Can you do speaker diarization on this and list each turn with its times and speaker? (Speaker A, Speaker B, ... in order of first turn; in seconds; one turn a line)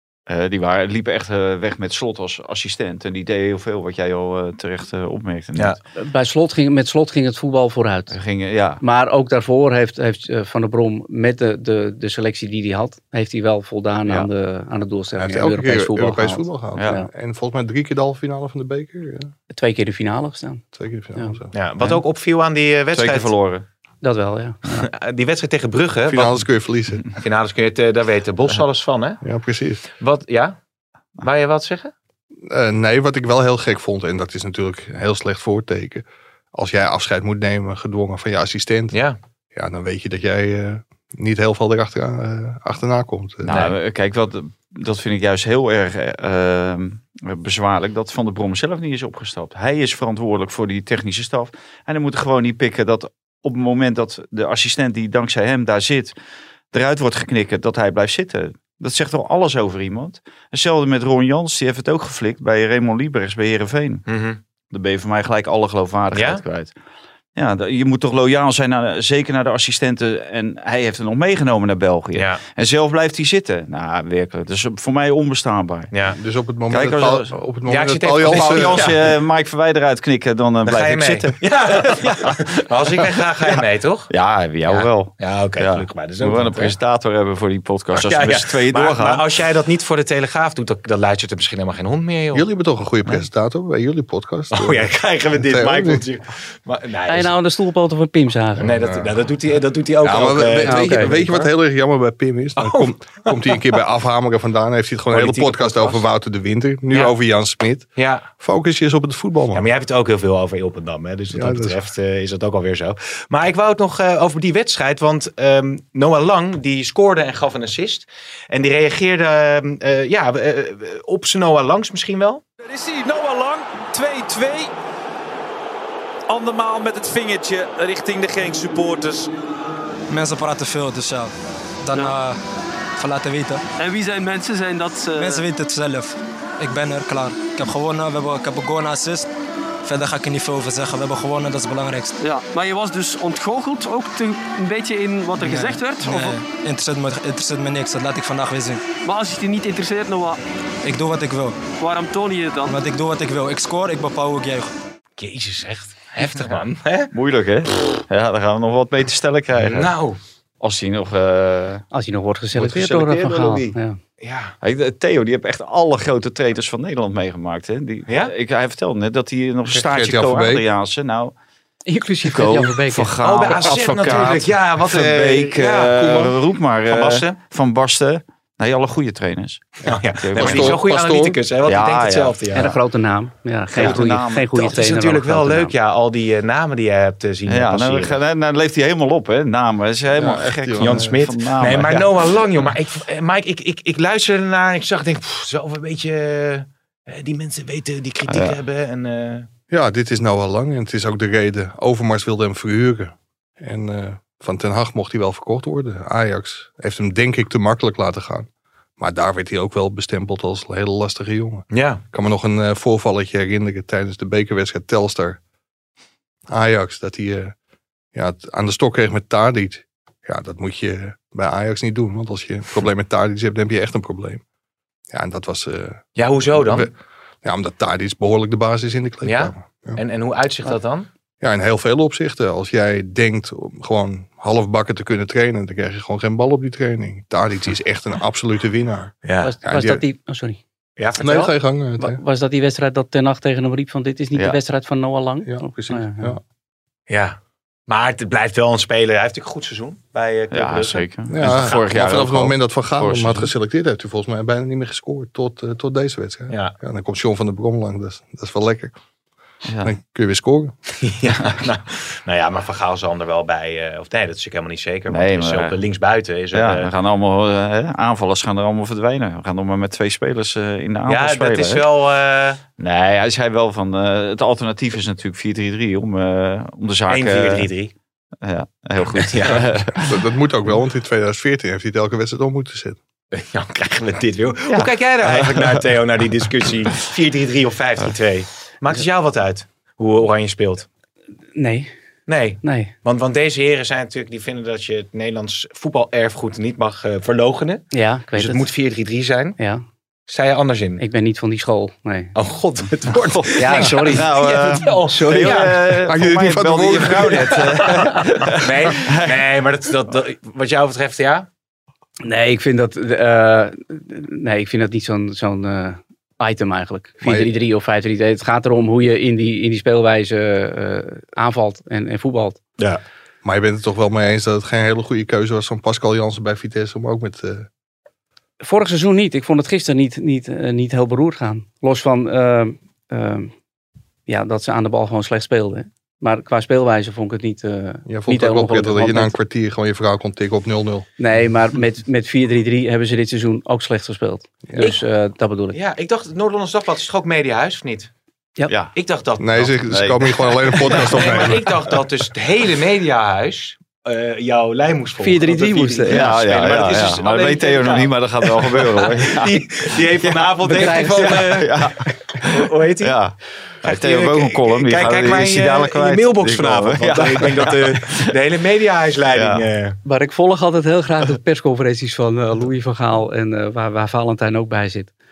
Speaker A: 0.3-5.8
Speaker B: 6.0-8.2
Speaker A: 8.1-8.8
Speaker B: 8.8-17.1
Speaker C: 15.2-19.3
Speaker B: 19.5-20.6
Speaker C: 20.7-21.5
Speaker D: 21.5-23.3
Speaker A: 22.9-23.6
Speaker B: 24.0-24.9
Speaker D: 24.8-26.4
Speaker C: 26.1-27.1
Speaker D: 27.2-29.2
Speaker C: 29.2-29.8
Speaker D: 30.0-30.6
Speaker D: 31.2-31.9
Speaker C: 32.5-39.0
Speaker D: 38.9-39.2
Speaker C: 39.5-43.6
Speaker A: 43.4-56.1
Speaker D: 43.5-43.7
Speaker A: 56.7-64.0
Speaker D: 64.1-64.4
Speaker A: 64.7-66.7
Speaker D: 66.1-66.4
Speaker A: 67.3-75.9
Speaker D: 75.9-76.2
Speaker C: 76.1-78.9
Speaker A: 76.7-77.3
Speaker D: 77.7-79.0
Speaker A: 78.2-82.4
Speaker D: 80.6-84.1
Speaker A: 83.0-89.2
Speaker D: 84.7-86.7
Speaker D: 88.0-92.5
Speaker C: 92.3-96.0
Speaker D: 94.5-97.3
Speaker B: 97.1-98.7
Speaker C: 98.6-99.1
Speaker D: 98.6-101.5
Speaker C: 100.0-109.7
Speaker B: 100.6-101.2
Speaker D: 102.6-103.6
Speaker D: 105.1-106.0
Speaker D: 108.0-108.3
Speaker D: 109.5-122.4
Speaker C: 111.3-111.8
Speaker E: 122.6-124.7
Speaker E: 126.3-129.3
Speaker F: 130.1-132.4
Speaker F: 133.0-133.6
Speaker G: 133.8-135.4
Speaker F: 135.2-139.3
Speaker F: 139.8-142.2
Speaker G: 142.2-146.4
Speaker F: 145.4-148.8
Speaker G: 149.1-150.4
Speaker F: 150.8-151.6
Speaker G: 151.8-152.8
Speaker F: 152.7-154.7
Speaker D: 155.2-157.1
Speaker A: 157.1-159.9
Speaker D: 159.6-160.2
Speaker A: 160.6-161.8
Speaker B: 161.9-164.0
Speaker A: 162.6-163.8
Speaker D: 164.2-164.6
Speaker A: 164.6-171.3
Speaker C: 169.7-170.7
Speaker B: 171.9-173.1
Speaker A: 172.3-180.8
Speaker D: 173.2-176.4
Speaker D: 176.9-177.3
Speaker D: 179.8-182.8
Speaker C: 179.9-181.4
Speaker A: 181.7-182.4
Speaker B: 182.5-185.7
Speaker A: 183.7-184.5
Speaker D: 183.7-188.2
Speaker A: 187.5-192.1
Speaker C: 190.1-191.2
Speaker D: 190.8-199.5
Speaker A: 198.3-198.6
Speaker C: 199.7-215.4
Speaker D: 211.7-212.0
Speaker C: 216.5-217.6
Speaker C: 218.1-224.4
Speaker C: 225.1-230.0
Speaker D: 226.2-226.9
Speaker D: 229.2-231.1
Speaker C: 231.4-240.0
Speaker D: 239.2-239.5
Speaker B: 239.4-240.6
Speaker D: 241.0-241.5
Speaker C: 241.2-242.2
Speaker B: 242.0-246.4
Speaker C: 245.4-246.4
Speaker D: 247.1-251.8
Speaker A: 250.5-253.5
Speaker C: 251.3-258.9
Speaker A: 259.7-259.9
Speaker C: 259.8-260.7
Speaker D: 261.0-266.9
Speaker A: 265.1-265.8
Speaker A: 266.5-271.9
Speaker D: 271.1-272.6
Speaker A: 272.8-277.7
Speaker D: 277.1-277.9
Speaker A: 278.4-280.1
Speaker D: 279.1-279.7
Speaker C: 280.0-283.0
Speaker D: 283.3-290.9
Speaker A: 284.7-285.9
Speaker B: 291.6-291.9
Speaker D: 292.3-299.6
Speaker B: 292.6-292.9
Speaker B: 297.9-298.7
Speaker B: 299.6-299.8
Speaker D: 300.3-301.0
Speaker B: 301.0-302.3
Speaker D: 302.4-305.8
Speaker A: 303.3-309.4
Speaker B: 303.6-305.7
Speaker C: 306.1-307.9
Speaker D: 307.3-311.5
Speaker B: 312.2-322.6
Speaker C: 317.2-317.5
Speaker C: 323.4-327.7
Speaker B: 328.6-333.5
Speaker B: 334.3-339.4
Speaker C: 338.1-341.1
Speaker B: 341.2-345.8
Speaker D: 345.7-348.1
Speaker A: 348.7-348.9
Speaker D: 348.9-349.8
Speaker C: 349.4-351.7
Speaker A: 349.9-351.6
Speaker D: 350.9-361.9
Speaker B: 355.2-356.3
Speaker A: 356.1-368.2
Speaker B: 360.6-361.5
Speaker D: 362.4-363.2
Speaker D: 363.8-370.0
Speaker A: 369.3-369.6
Speaker B: 370.1-375.1